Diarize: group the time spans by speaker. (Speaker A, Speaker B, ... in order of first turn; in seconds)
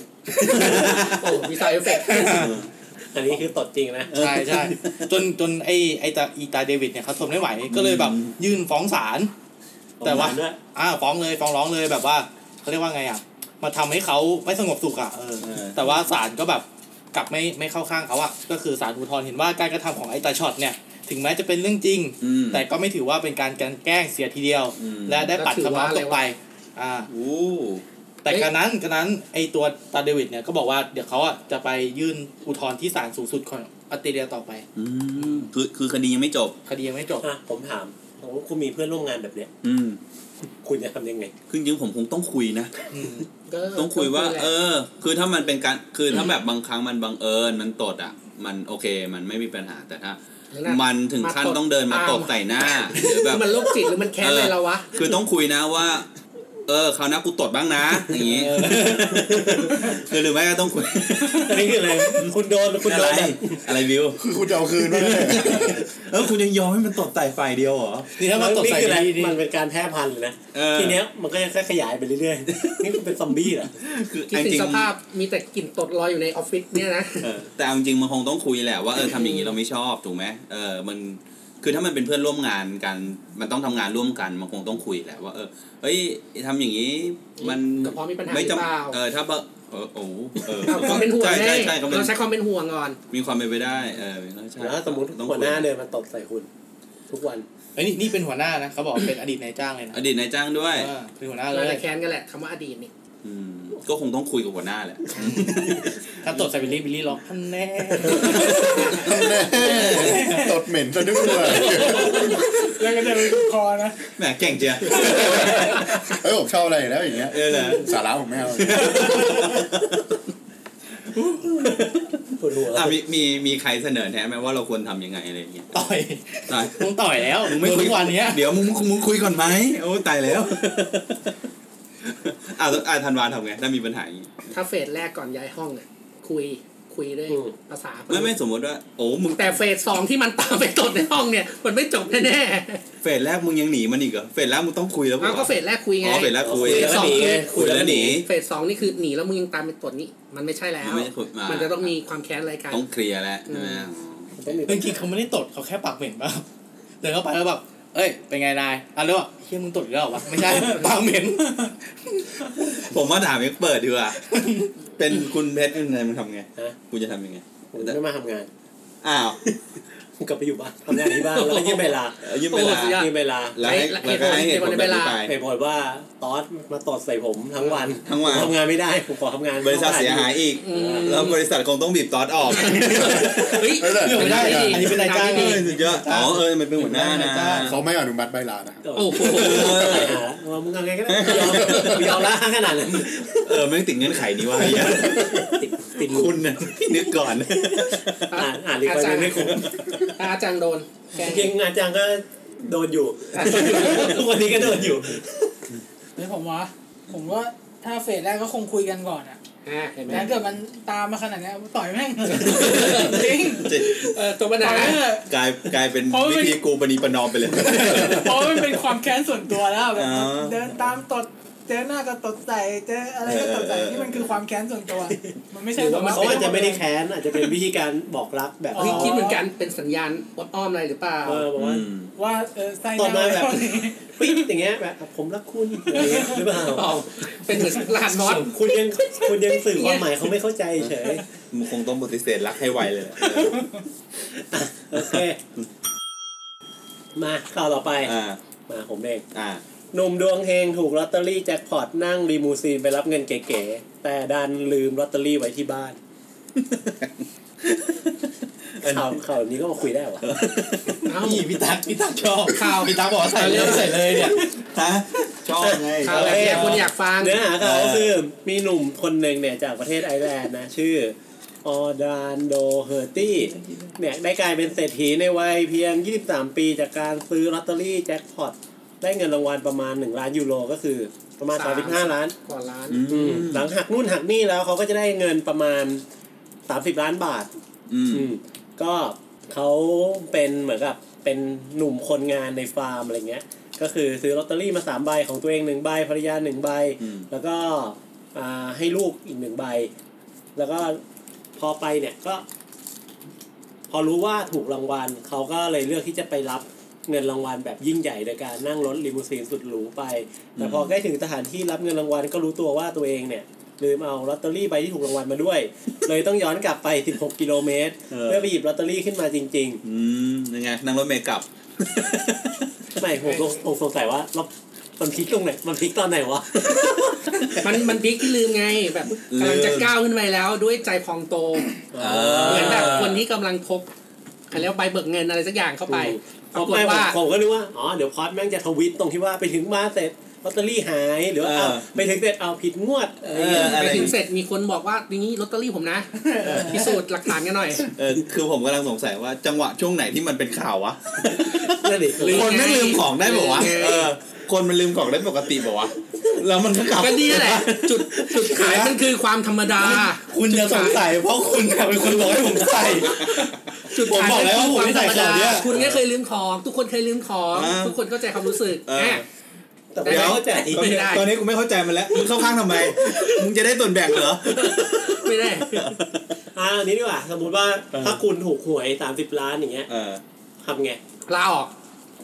Speaker A: 0.3-1.0, 2.0-2.5, 4.1-9.3, 10.0-27.1, 28.2-34.6, 35.2-35.5, 36.7-37.3, 42.9-43.3, 58.2-59.7, 68.2-69.4, 97.8-100.0, 100.7-101.8, 105.2-109.1, 125.7-128.4, 154.7-156.4, 157.0-162.6, 164.3-164.7, 183.9-187.7, 261.2-264.4, 359.8-365.7
Speaker B: 0.4-1.4, 2.2-2.7, 4.1-5.1, 7.7-8.3, 15.4-15.9, 22.2-22.6, 24.8-25.3, 27.1-27.8, 34.8-36.6, 39.6-40.0, 41.5-42.7, 43.8-53.6, 54.2-56.1, 56.7-64.2, 64.8-68.1, 70.5-71.0, 72.5-73.0, 73.7-74.9, 77.2-92.2, 93.1-95.7, 99.9-100.9, 103.2-105.9, 108.1-110.3, 114.2-115.9, 117.3-117.9, 118.6-120.0, 121.2-122.0, 122.7-125.7, 126.5-131.3, 132.1-134.5, 138.1-139.6, 143.0-148.3, 150.8-151.9, 152.7-154.6, 162.7-164.2, 165.0-168.0, 169.0-169.4, 172.2-175.3, 178.0-178.6, 179.6-183.6, 184.9-187.8, 189.2-190.2, 191.1-192.3, 193.4-198.3, 199.5-200.1, 212.4-214.1, 214.7-218.8, 219.9-220.7, 223.2-224.3, 231.6-232.1, 241.5-243.7, 245.0-245.2, 248.0-248.4, 249.3-249.6, 256.6-257.1, 257.6-259.2, 260.2-261.1, 263.5-266.9, 267.5-268.2, 273.5-273.9, 282.9-283.7, 287.9-288.3, 297.0-297.3, 310.6-310.9, 318.1-318.5, 319.8-322.7, 329.2-329.9, 332.0-333.2, 341.4-341.9, 343.3-344.2, 346.4-346.7, 347.8-358.9, 363.0-363.5, 365.7-366.0, 367.5-369.2, 370.0-376.3, 377.9-378.2, 379.9-380.2
Speaker C: 0.6-2.5, 25.3-26.2, 43.5-44.5, 50.5-55.0, 74.3-77.3, 79.0-79.6, 87.4-89.0, 90.7-93.0, 101.5-102.9, 134.5-138.3, 139.3-142.8, 145.2-147.6, 148.2-152.8, 153.5-153.9, 171.2-172.0, 172.5-175.2, 177.6-177.9, 180.6-181.4, 182.5-185.6, 189.0-190.0, 198.3-201.5, 203.3-204.2, 209.7-210.3, 212.4-215.0, 225.8-226.7, 228.8-231.5, 236.7-238.6, 239.2-240.1, 261.1-261.4, 262.5-264.2, 266.0-267.4, 281.5-283.2, 323.2-323.5, 327.6-331.8, 332.4-333.9, 334.5-337.2, 343.5-347.9, 352.2-354.1, 357.0-361.0, 363.9-369.2, 370.0-371.3, 373.0-373.4, 374.5-375.9, 381.3-381.7
Speaker D: 3.1-4.1, 10.0-10.6, 37.2-39.5, 40.6-41.3, 59.3-59.9, 61.4-63.6, 68.2-73.8, 94.6-96.5, 97.1-97.5, 122.4-122.9, 137.3-137.6, 146.4-148.2, 154.4-155.1, 167.7-168.5, 170.2-172.3, 172.8-173.6, 175.2-181.3, 188.8-193.7, 194.6-196.8, 197.6-199.8, 201.1-205.5, 226.0-229.3, 231.2-231.9, 233.0-237.0, 238.2-241.2, 244.3-245.4, 247.2-248.1, 248.7-249.3, 249.9-256.0, 258.8-260.3, 265.6-282.4, 283.1-286.0, 286.7-287.5, 288.1-299.9, 300.6-301.0, 301.6-302.4, 303.9-319.8, 323.0-327.5, 331.9-333.2, 335.9-344.1, 351.4-352.5, 369.9-371.2, 376.5-379.9, 380.6-381.0
Speaker E: 64.2-65.8, 108.8-112.3, 115.4-119.4, 183.8-184.9, 187.6-188.9
Speaker F: 109.9-110.5, 111.5-114.1, 115.0-115.5, 206.2-209.4, 210.1-213.9, 214.6-215.3, 216.1-216.6, 217.6-226.8, 228.7-229.4, 232.2-234.4, 236.0-236.3, 243.4-243.7, 346.1-346.9